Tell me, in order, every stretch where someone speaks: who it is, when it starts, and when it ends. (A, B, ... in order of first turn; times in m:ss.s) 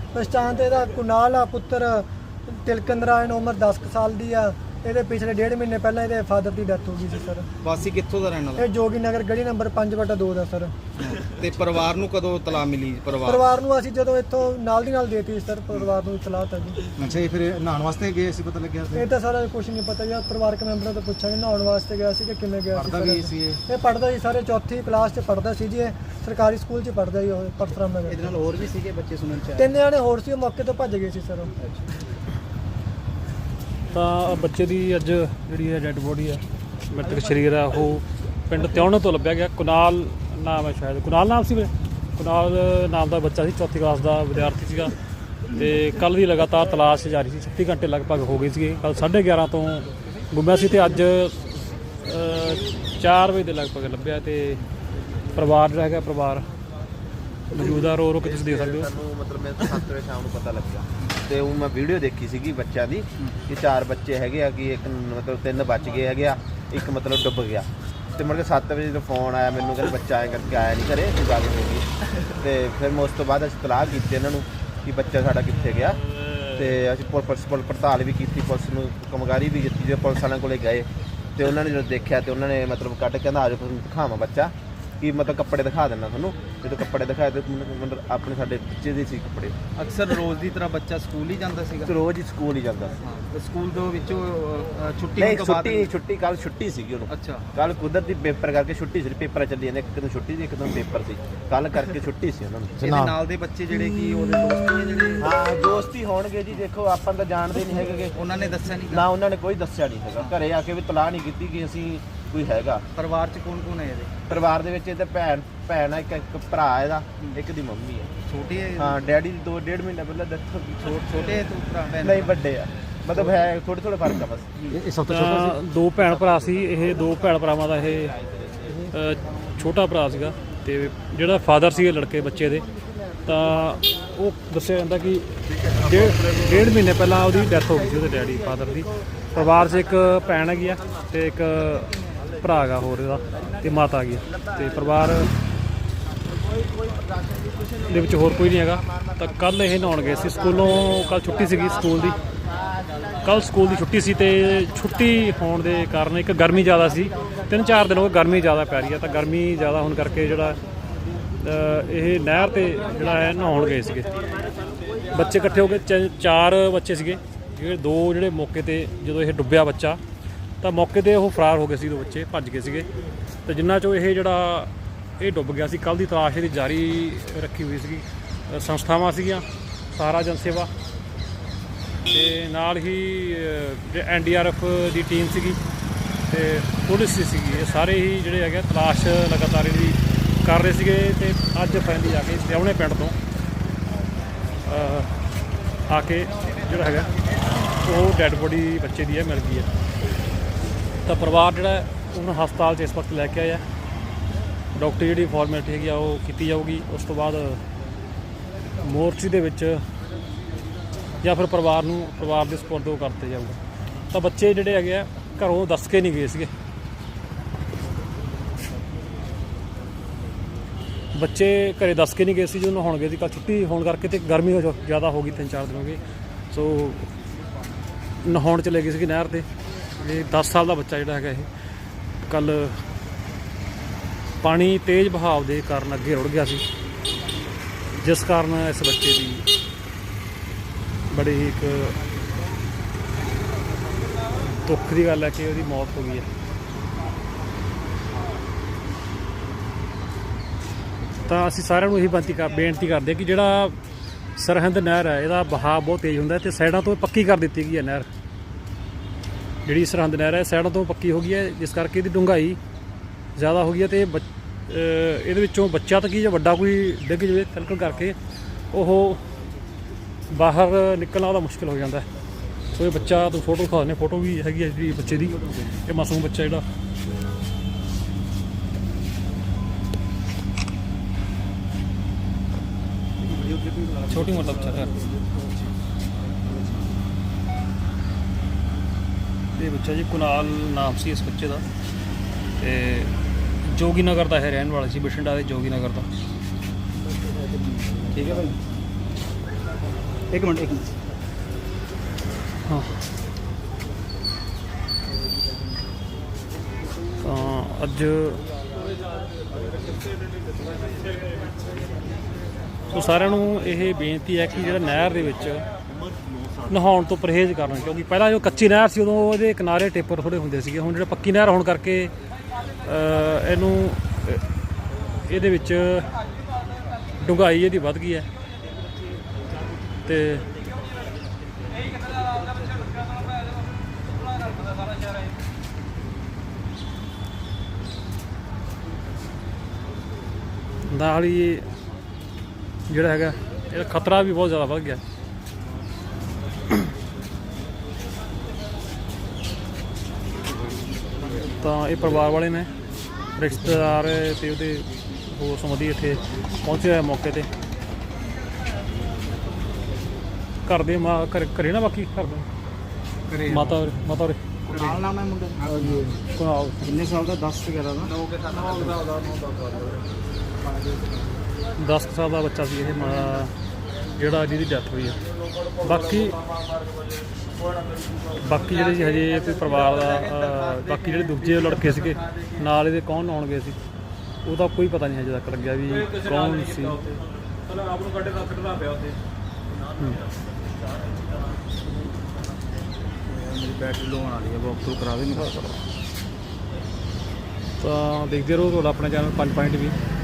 0:00.1-0:07.5 A
0:07.6-0:08.7 B
0:08.6-0:10.7 A
0:11.0-0:13.5 B
0:13.2-0:16.8 A
0:17.0-0:19.1 C
0:18.9-0:28.3 A
0:22.7-0:23.6 C
0:28.1-0:29.7 B
0:29.6-0:31.5 A
0:33.9-0:44.9 D
0:45.5-0:54.6 D
0:55.4-0:56.4 D
0:57.5-0:58.9 D
0:58.2-1:11.8 E
1:12.4-1:16.0 E
1:16.5-1:29.6 E
1:29.8-1:31.9 B
1:31.8-1:33.0 E
1:33.0-1:35.9 B
1:35.2-1:42.8 E
1:37.1-1:37.4 B
1:42.8-1:43.2 C
1:42.8-1:45.3 B
1:45.2-1:48.2 E
1:48.1-1:49.0 B
1:48.9-1:52.8 E
1:53.0-1:54.2 B
1:54.3-1:58.1 E
1:58.2-1:59.0 B
1:58.8-2:01.0 E
2:00.8-2:02.3 B
2:02.0-2:04.5 E
2:04.7-2:05.6 C
2:05.1-2:08.1 D
2:08.9-2:12.6 D
2:13.2-2:25.3 D
2:27.8-2:32.2 D
2:33.2-2:40.6 D
2:41.4-2:44.1 D
2:45.1-2:50.0 D
2:50.6-2:52.9 D
2:53.4-3:00.7 D
3:02.1-3:05.6 D
3:06.3-3:13.2 D
3:14.6-3:15.2 D
3:15.9-3:17.1 D
3:17.8-3:19.7 D
3:21.0-3:23.6 D
3:24.7-3:27.6 D
3:28.8-3:29.8 D
3:31.2-3:33.6 D
3:34.1-3:36.5 D
3:41.1-3:46.0 D
3:46.5-3:47.1 D
3:48.2-3:49.4 D
3:50.0-3:51.5 D
3:52.2-3:52.8 D
3:54.4-3:56.6 D
3:58.0-3:59.5 D
4:01.1-4:02.0 D
4:04.6-4:06.3 D
4:11.2-4:13.8 D
4:14.4-4:18.1 D
4:19.6-4:22.6 D
4:23.4-4:28.2 D
4:28.7-4:29.2 D
4:30.3-4:32.0 D
4:32.7-4:36.6 D
4:43.4-4:44.0 C
4:44.1-4:44.9 D
4:49.6-4:51.6 D
4:52.6-4:56.1 D
4:57.9-4:58.6 B
5:00.3-5:00.9 B
5:07.2-5:08.4 D
5:12.9-5:15.6 D
5:16.7-5:22.1 D
5:22.8-5:24.4 D
5:25.2-5:26.1 D
5:27.2-5:28.3 D
5:30.0-5:30.5 D
5:40.9-5:41.6 D
5:42.9-5:45.0 D
5:51.6-5:52.7 D
5:53.4-5:57.5 D
6:00.6-6:02.5 D
6:03.3-6:03.8 B
6:03.5-6:04.4 D
6:04.7-6:06.2 B
6:06.3-6:06.9 D
6:06.8-6:09.3 B
6:11.8-6:13.5 D
6:14.2-6:15.2 D
6:15.8-6:16.4 D
6:18.4-6:23.8 D
6:21.8-6:22.1 B
6:24.4-6:27.0 D
6:28.0-6:28.6 B
6:33.3-6:35.5 B
6:35.4-6:35.7 D
6:37.8-6:39.9 D